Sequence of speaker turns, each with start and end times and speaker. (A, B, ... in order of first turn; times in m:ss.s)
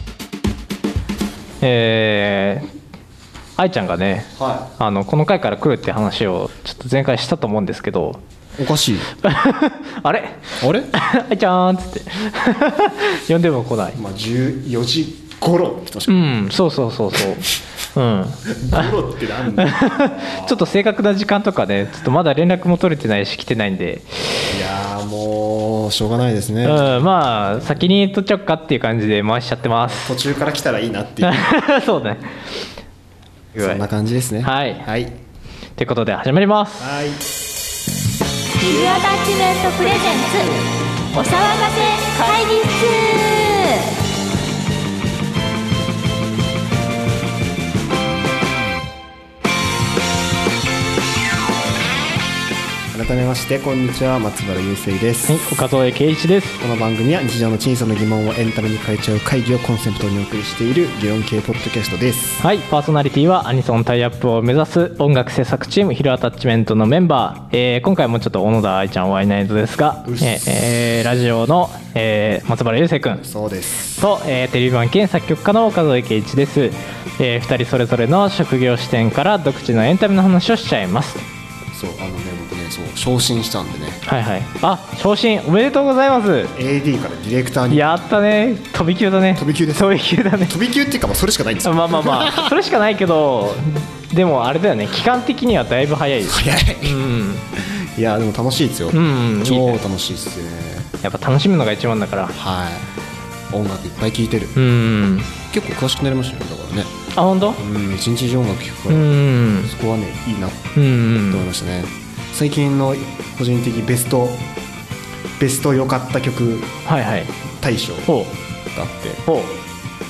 0:01.6-0:02.7 A
0:03.6-0:08.2 A
0:04.4-0:04.7 B
0:08.6-0:09.1 B
0:09.2-0:14.0 A
0:10.6-0:10.9 B
0:13.9-0:16.4 B
0:16.1-0:18.9 A
0:18.5-0:20.6 B
0:19.6-0:24.4 A
0:24.5-0:27.8 B
0:26.6-0:30.2 A
0:29.8-0:31.5 B
0:31.2-0:32.4 A
0:33.5-0:35.1 B
0:33.6-0:33.8 A
0:34.4-0:34.9 A
0:35.8-0:36.9 A
0:36.8-0:37.2 B
0:38.5-0:40.6 C
0:41.1-0:43.9 C
0:52.9-0:55.4 B
0:55.2-0:56.6 A
0:56.6-1:02.4 B
1:02.4-1:13.2 A
1:10.0-1:10.6 B
1:13.1-1:14.1 B
1:13.8-1:21.2 A
1:21.7-1:24.0 B
1:24.0-1:26.5 A
1:26.5-1:27.9 B
1:27.7-1:30.6 A
1:29.4-1:32.6 B
1:31.6-1:37.4 A
1:36.2-1:37.0 B
1:37.6-1:40.9 B
1:38.9-1:39.8 A
1:41.0-1:42.3 A
1:42.3-1:42.9 B
1:43.5-1:44.6 B
1:44.6-1:45.3 A
1:45.5-1:46.9 B
1:47.1-1:47.6 A
1:47.5-1:54.4 B
1:48.9-1:49.7 A
1:50.7-1:51.5 A
1:55.4-1:56.7 B
1:56.8-1:57.3 A
1:57.6-1:59.2 B
1:58.1-1:58.3 A
1:59.2-1:59.6 A